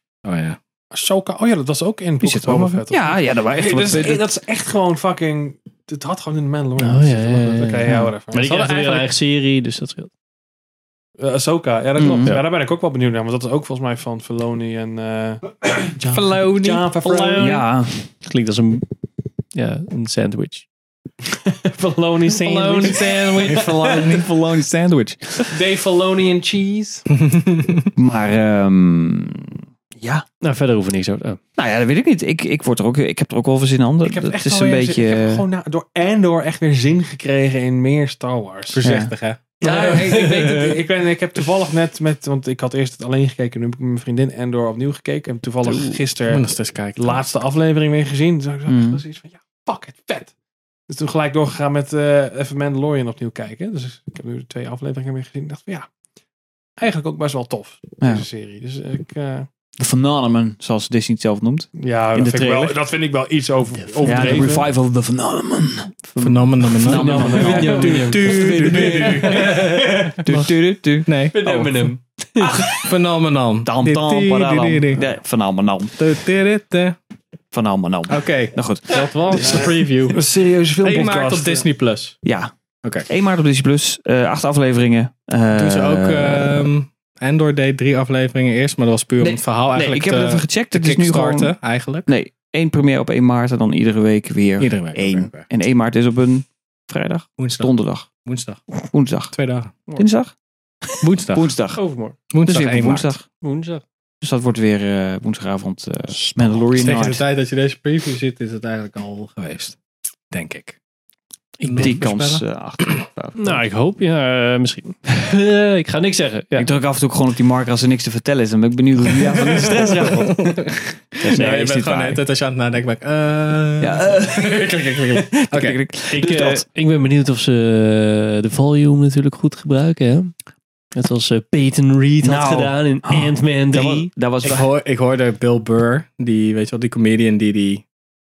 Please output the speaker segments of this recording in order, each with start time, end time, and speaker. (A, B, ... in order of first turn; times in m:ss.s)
0:00.2-0:00.6 A
0:00.9-0:09.0 B
0:02.2-0:04.3 C
0:06.8-0:10.1 D
0:07.8-0:08.1 C
0:08.5-0:08.9 A
0:11.2-0:17.6 B
0:12.0-0:12.4 C
0:17.0-0:17.7 D
0:17.4-0:18.1 C
0:18.2-0:18.8 D
0:19.5-0:20.7 D
0:21.5-0:23.9 B
0:22.3-0:24.3 A
0:23.8-0:25.6 C
0:25.5-0:27.1 B
0:27.1-0:27.9 A
0:28.0-0:30.2 C
0:30.4-0:31.4 D
0:31.6-0:35.5 C
0:34.0-0:38.8 B
0:38.7-0:39.5 A
0:38.8-0:39.1 C
0:39.6-0:50.3 B
0:39.6-0:40.8 D
0:46.3-0:47.3 A
0:48.7-0:49.0 C
0:50.9-0:55.9 B
0:56.8-0:59.5 B
0:58.0-0:58.3 C
0:59.8-1:02.8 C
1:01.8-1:04.6 B
1:04.0-1:04.5 D
1:04.0-1:11.8 C
1:06.2-1:09.8 A
1:06.9-1:09.1 B
1:07.3-1:10.5 D
1:11.1-1:11.4 A
1:11.3-1:12.7 D
1:12.7-1:15.1 A
1:13.6-1:16.1 C
1:16.0-1:17.0 A
1:17.5-1:19.6 C
1:18.1-1:20.2 A
1:19.4-1:21.7 B
1:20.8-1:22.2 A
1:22.2-1:22.5 C
1:23.0-1:26.7 C
1:25.5-1:32.1 A
1:29.2-1:31.6 C
1:32.1-1:38.1 C
1:34.6-1:35.5 A
1:37.4-1:37.7 A
1:38.2-1:38.6 A
1:38.9-1:39.4 C
1:39.3-1:39.8 A
1:40.0-1:40.3 C
1:41.0-1:41.6 A
1:41.3-1:41.8 C
1:41.8-1:42.2 D
1:42.3-1:43.1 A
1:42.4-1:43.2 C
1:43.4-1:43.8 D
1:44.2-1:47.2 C
1:46.1-1:46.7 D
1:46.7-1:49.8 A
1:50.3-1:50.8 A
1:51.6-1:52.4 A
1:51.6-1:51.9 D
1:51.7-1:53.6 C
1:53.4-1:56.7 D
1:56.6-2:00.5 C
1:59.3-2:05.8 A
2:01.2-2:02.2 C
2:01.3-2:01.6 D
2:03.8-2:06.6 C
2:06.1-2:10.3 D
2:11.0-2:14.1 D
2:12.2-2:14.7 C
2:14.4-2:17.8 A